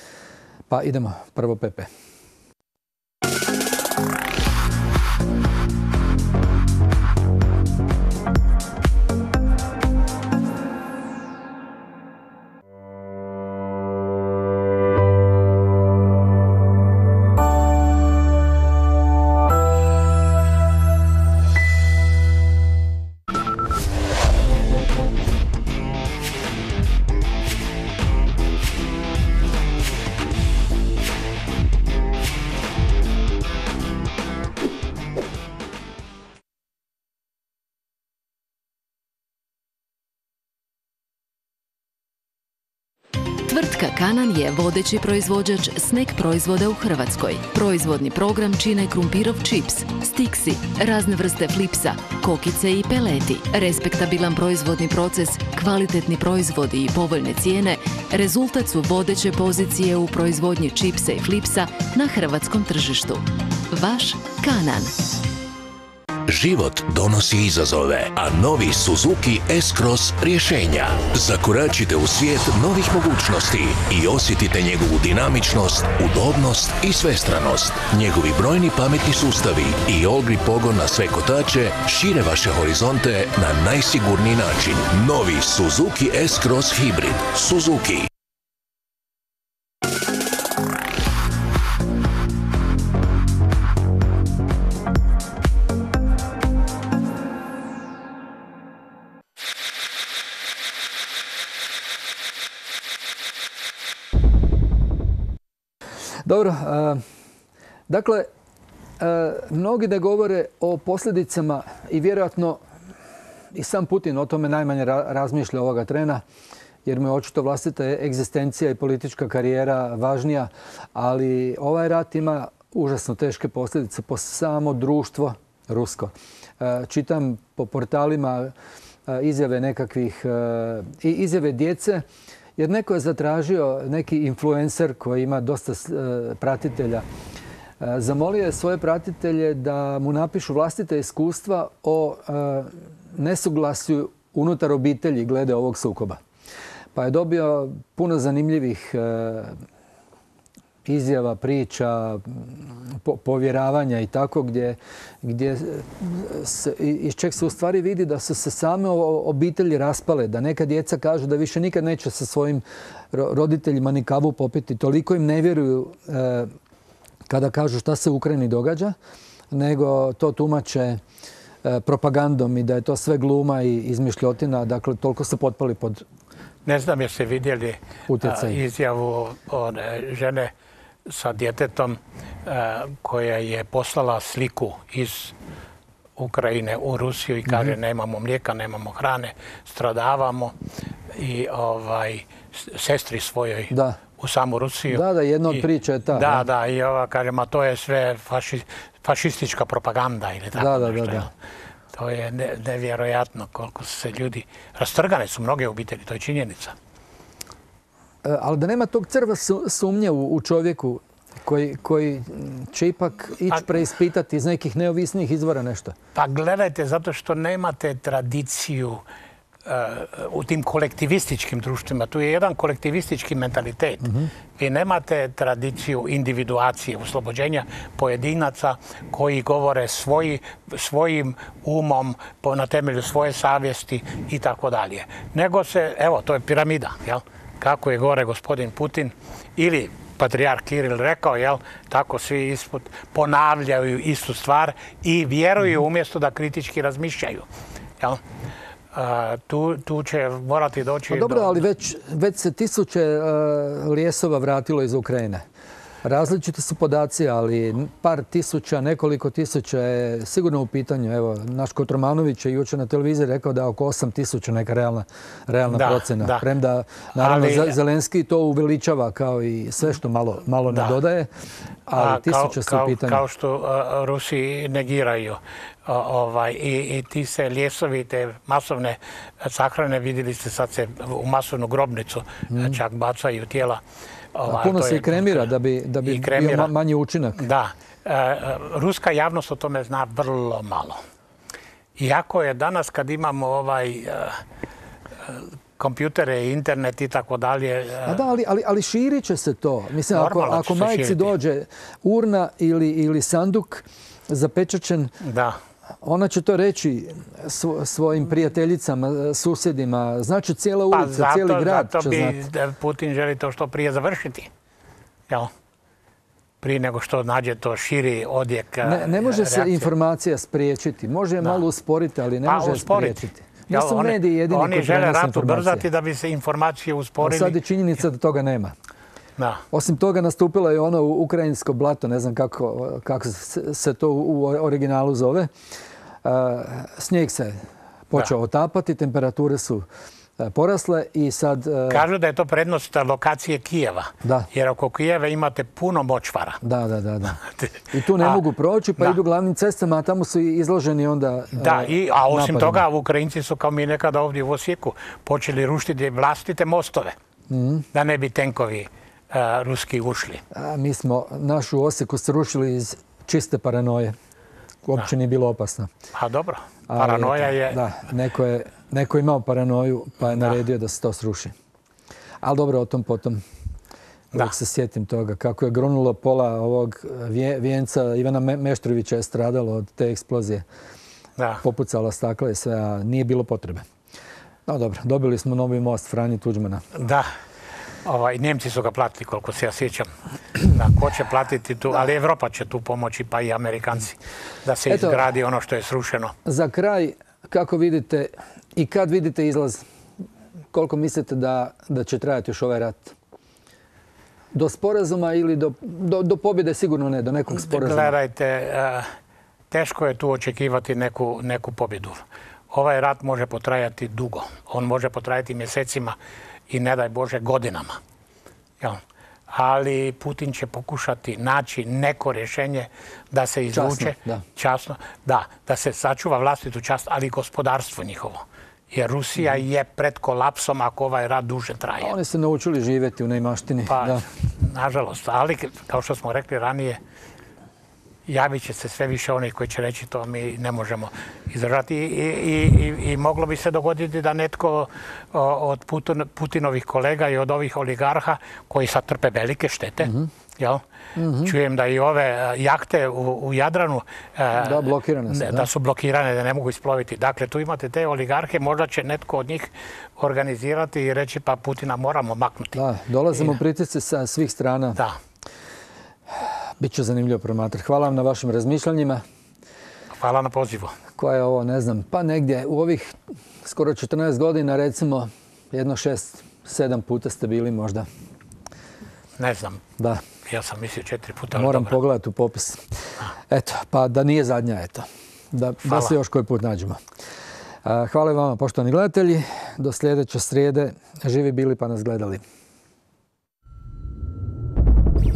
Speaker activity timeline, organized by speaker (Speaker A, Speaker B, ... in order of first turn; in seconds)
Speaker A: 0.7-1.9, 106.2-107.0, 107.9-108.3, 109.0-112.6, 113.5-116.2, 116.8-128.5, 129.1-132.1, 132.6-137.0, 137.8-146.2, 146.9-149.6, 150.8-166.5, 167.3-168.9, 169.5-171.0, 171.6-176.0, 178.1-178.6, 193.7-194.0, 194.9-196.4, 200.5-201.3, 208.2-215.9, 224.0-224.3, 251.1-255.4, 256.0-271.3, 271.9-273.2, 282.5-282.8, 284.5-287.4, 298.0-305.1, 306.0-312.4, 318.8-325.9, 327.2-328.7, 329.7-335.5, 336.2-339.9, 340.4-342.1, 344.2-344.5, 346.6-347.4, 347.9-352.8, 357.5-357.9, 360.5-364.1, 364.8-365.9, 366.9-371.5, 372.4-373.4, 374.3-380.6, 381.6-383.9, 384.7-386.8, 394.9-395.3, 396.4-399.8, 400.7-403.1, 404.5-408.1, 423.7-424.4, 432.0-434.2, 450.0-450.3, 451.1-451.5, 454.5-455.7, 462.7-465.0, 466.3-469.2, 471.2-478.1, 480.0-480.2, 481.5-482.9, 483.5-487.0, 487.8-492.4
Speaker B: 43.5-65.2
Speaker C: 66.3-88.1
Speaker D: 176.6-180.5, 181.1-185.3, 186.2-190.5, 191.1-201.3, 201.9-206.7, 216.1-219.0, 219.6-247.5, 248.9-251.6, 265.7-266.4, 267.2-267.8, 270.7-271.0, 271.9-283.8, 284.3-285.5, 286.0-286.7, 287.4-291.0, 291.9-294.4, 295.2-298.2, 300.1-301.3, 305.2-305.6, 310.9-314.5, 316.6-319.9, 322.4-327.6, 329.4-329.6, 341.9-346.6, 347.4-348.4, 351.6-357.1, 357.9-360.4, 366.1-367.8, 370.3-370.6, 381.4-381.6, 386.9-387.3, 388.0-390.1, 390.6-396.3, 407.5-409.1, 409.7-416.1, 416.7-418.0, 418.8-432.1, 433.9-437.0, 438.3-450.8, 451.4-462.8, 463.3-463.6, 470.1-470.9, 479.4-479.8, 480.4-482.0, 485.9-486.1